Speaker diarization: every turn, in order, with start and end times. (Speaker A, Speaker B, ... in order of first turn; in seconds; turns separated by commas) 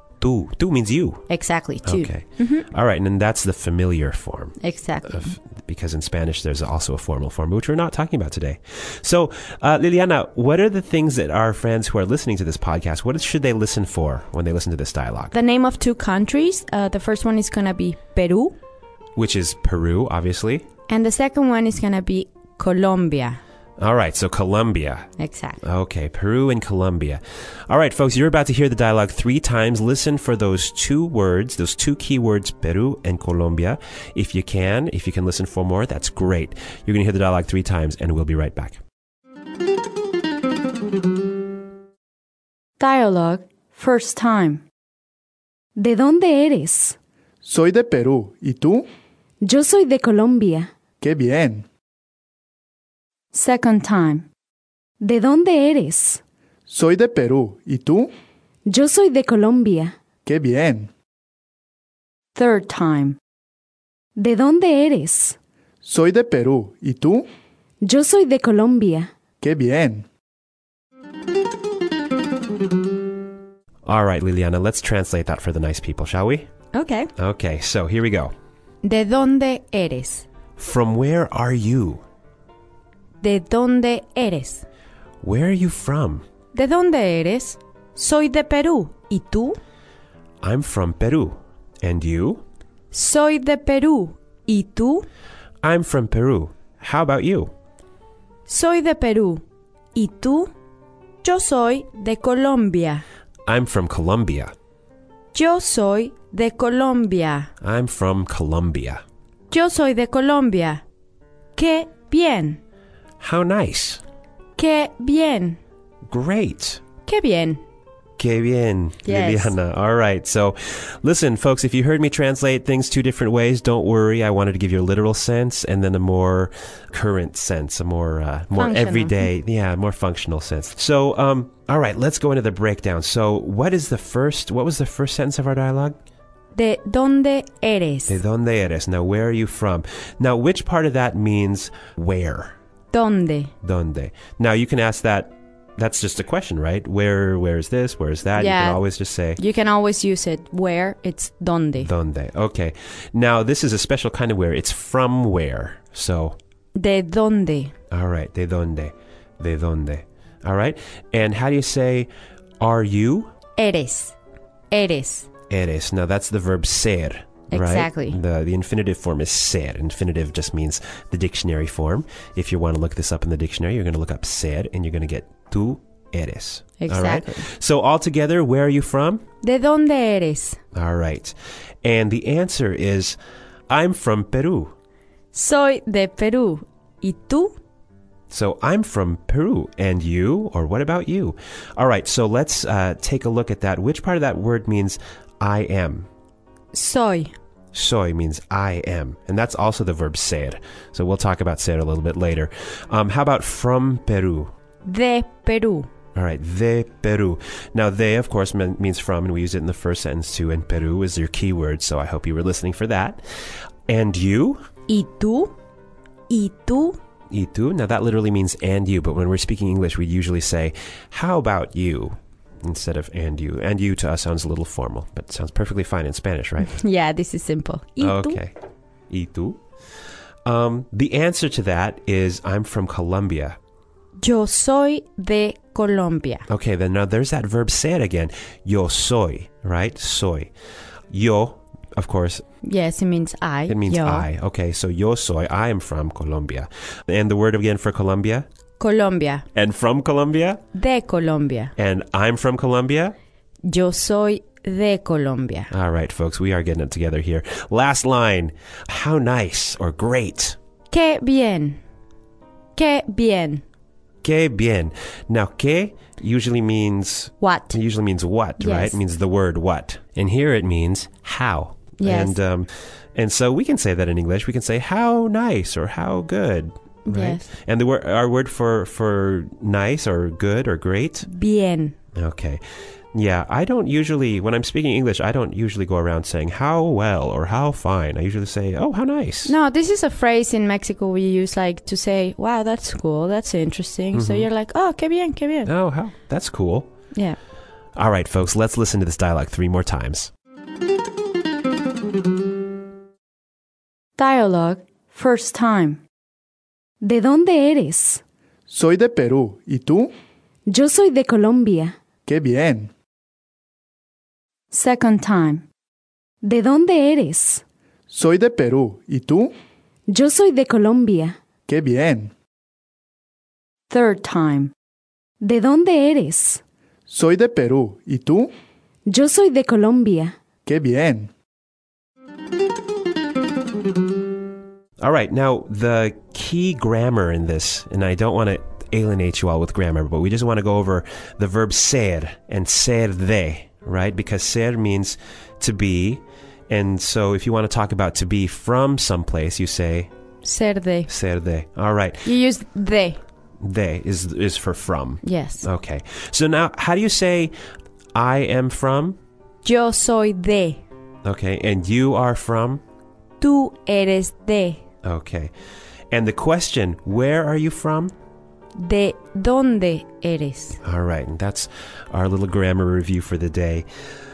Speaker A: 0.2-1.2, Speaker B: 1.3-2.6, Speaker A: 1.8-4.6, Speaker B: 4.6-5.3, Speaker A: 5.1-15.3, Speaker B: 15.3-18.5, Speaker A: 19.2-20.6, Speaker B: 20.9-23.4, Speaker A: 23.8-25.1, Speaker B: 25.2-25.6, Speaker A: 25.6-38.8, Speaker B: 42.8-44.6, Speaker C: 45.8-47.0, Speaker D: 47.4-48.9, Speaker C: 49.4-50.7, Speaker D: 51.0-51.6, Speaker B: 53.3-54.2, Speaker C: 55.0-56.2, Speaker D: 56.7-58.1, Speaker C: 58.7-59.9, Speaker D: 60.2-60.9, Speaker B: 62.3-63.2, Speaker C: 64.2-65.4, Speaker D: 65.8-67.3, Speaker C: 67.8-69.1, Speaker D: 69.4-70.0, Speaker A: 73.8-76.5, Speaker B: 76.7-77.1, Speaker A: 77.2-78.3, Speaker B: 78.8-80.2, Speaker A: 80.6-82.0, Speaker B: 83.2-84.6, Speaker A: 85.2-86.2, Speaker B: 86.5-89.6, Speaker A: 90.4-92.4, Speaker B: 92.9-95.0, Speaker A: 95.6-97.5, Speaker B: 98.5-99.4, Speaker B: 99.9-100.5, Speaker B: 101.2-103.0, Speaker A: 103.5-104.5, Speaker B: 105.3-107.5, Speaker A: 107.6-109.0, Speaker B: 109.5-110.8, Speaker B: 111.5-112.6, Speaker A: 113.2-114.0, Speaker B: 114.6-115.6, Speaker A: 116.1-116.8, Speaker B: 117.0-117.6, Speaker A: 118.2-135.9, Speaker B: 119.0-119.5, Speaker B: 128.6-129.3, Speaker B: 136.5-138.2, Speaker A: 138.1-142.5, Speaker B: 142.9-143.5, Speaker A: 143.6-149.4, Speaker B: 148.3-148.8, Speaker B: 149.3-151.9, Speaker A: 151.8-156.3, Speaker B: 156.7-157.7, Speaker A: 157.9-163.3, Speaker B: 163.6-164.1, Speaker B: 164.7-165.3, Speaker A: 165.5-179.2, Speaker B: 167.5-168.2, Speaker B: 176.8-177.4, Speaker B: 179.4-180.6, Speaker A: 180.7-183.2, Speaker A: 183.7-184.7, Speaker B: 185.3-187.5, Speaker A: 188.3-196.1, Speaker B: 196.7-197.3, Speaker A: 197.7-204.5, Speaker B: 204.8-205.9, Speaker A: 206.1-213.2, Speaker A: 213.9-214.6, Speaker B: 214.9-215.5, Speaker B: 216.3-217.0, Speaker A: 217.3-226.7, Speaker B: 226.6-228.4, Speaker A: 228.0-228.5, Speaker A: 229.1-229.6, Speaker A: 230.4-233.6, Speaker B: 234.2-236.4, Speaker A: 236.5-240.5, Speaker A: 241.1-242.4, Speaker B: 242.6-244.3, Speaker A: 243.7-248.4, Speaker B: 248.8-249.4, Speaker A: 249.5-250.6, Speaker B: 250.7-251.7, Speaker A: 251.8-253.2, Speaker B: 253.7-255.7, Speaker A: 255.7-260.6, Speaker B: 260.9-261.8, Speaker B: 262.8-263.6, Speaker A: 264.2-281.2, Speaker B: 267.4-267.8, Speaker B: 268.6-269.0, Speaker B: 272.0-272.4, Speaker B: 277.1-277.4, Speaker B: 281.2-281.9, Speaker A: 282.1-282.6, Speaker A: 283.1-289.5, Speaker B: 289.4-295.7, Speaker A: 294.1-294.5, Speaker A: 295.6-296.9, Speaker A: 297.9-300.3, Speaker B: 304.2-306.0, Speaker C: 307.0-308.2, Speaker D: 308.7-310.1, Speaker C: 310.7-311.9, Speaker D: 312.2-312.9, Speaker B: 314.7-315.6, Speaker C: 316.4-317.6, Speaker D: 318.1-319.5, Speaker C: 320.1-321.4, Speaker D: 321.7-322.3, Speaker B: 323.9-324.7, Speaker C: 325.4-326.6, Speaker D: 327.1-328.5, Speaker C: 329.1-330.3, Speaker D: 330.6-331.3, Speaker A: 335.0-350.1, Speaker B: 350.4-351.1, Speaker A: 351.1-352.3, Speaker B: 352.2-353.2, Speaker A: 353.6-357.5, Speaker B: 355.2-355.6, Speaker A: 358.1-359.2, Speaker B: 359.6-360.8, Speaker A: 361.2-362.8, Speaker B: 363.4-364.8, Speaker A: 365.0-365.5, Speaker A: 366.1-368.1, Speaker B: 368.8-370.8, Speaker A: 370.8-373.9